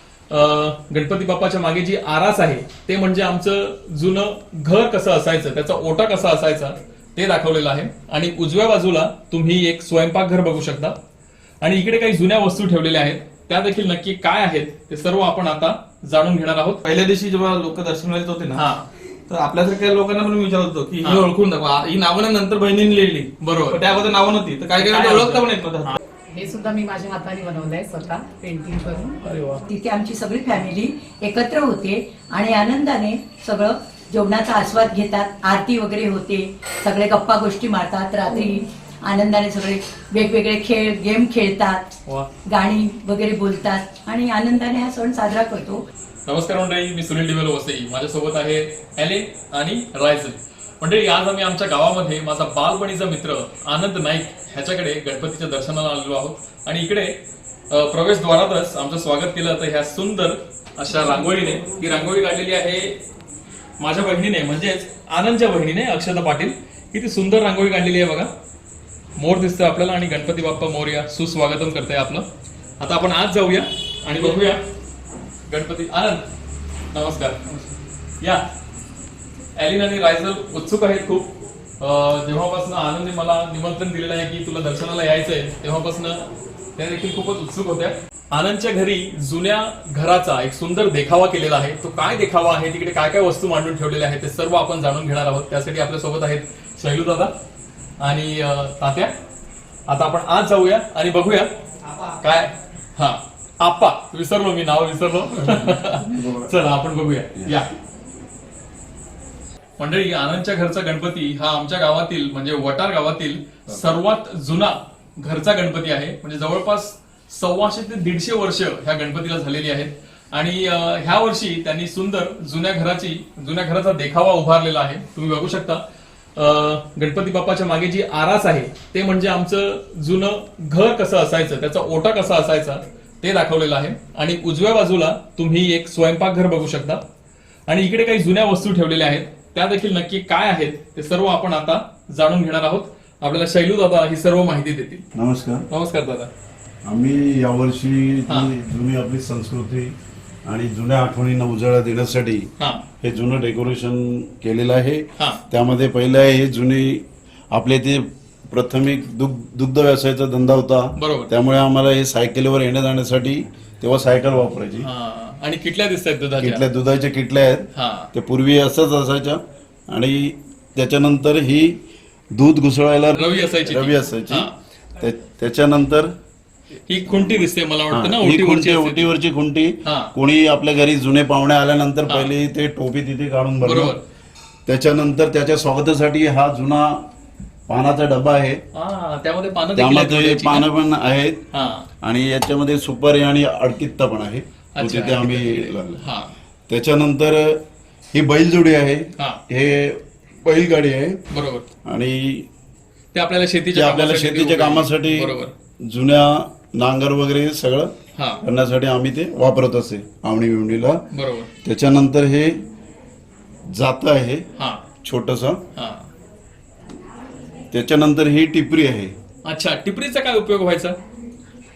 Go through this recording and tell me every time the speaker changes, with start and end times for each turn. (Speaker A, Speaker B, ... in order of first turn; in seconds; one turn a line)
Speaker A: 0.3-11.0
Speaker A: 11.6-16.8
Speaker B: 16.8-18.6
Speaker A: 18.5-18.9
Speaker B: 19.3-26.0
Speaker A: 23.4-23.8
Speaker A: 24.8-26.0
Speaker C: 26.3-29.2
Speaker A: 29.2-29.6
Speaker D: 29.7-45.9
Speaker A: 46.2-57.1
Speaker A: 57.7-63.0
Speaker A: 63.8-68.3
Speaker A: 69.2-72.3
Speaker A: 72.8-74.6
Speaker A: 75.5-76.2
Speaker A: 76.9-77.4
Speaker B: 77.5-77.7
Speaker A: 79.5-97.3
Speaker A: 98.0-99.1
Speaker A: 99.9-101.5
Speaker B: 101.8-102.4
Speaker A: 102.2-107.7
Speaker E: 105.4-106.5
Speaker A: 109.8-125.8
Speaker A: 126.3-137.0
Speaker A: 137.7-145.0
Speaker E: 145.1-145.6
Speaker A: 145.7-146.3
Speaker E: 146.8-149.9
Speaker E: 150.4-152.5
Speaker A: 152.6-152.8
Speaker E: 153.0-164.9
Speaker A: 155.2-155.4
Speaker A: 161.0-161.3
Speaker A: 164.8-166.6
Speaker E: 166.4-171.8
Speaker A: 167.7-168.1
Speaker E: 172.3-176.1
Speaker A: 173.1-174.5
Speaker A: 176.9-179.1
Speaker E: 177.9-183.9
Speaker A: 179.8-180.1
Speaker A: 183.6-184.0
Speaker E: 184.7-187.1
Speaker E: 187.7-188.6
Speaker A: 188.7-190.7
Speaker E: 189.7-191.4
Speaker A: 191.5-191.9
Speaker E: 192.0-196.0
Speaker A: 194.7-196.3
Speaker E: 196.7-197.6
Speaker E: 198.1-201.2
Speaker A: 201.3-201.6
Speaker E: 201.8-202.5
Speaker A: 203.1-205.5
Speaker E: 203.7-211.0
Speaker A: 208.1-208.4
Speaker A: 211.1-211.5
Speaker E: 211.6-212.6
Speaker E: 213.7-214.5
Speaker A: 214.6-214.8
Speaker E: 215.0-215.6
Speaker A: 215.8-216.1
Speaker E: 217.7-219.1
Speaker A: 219.4-221.0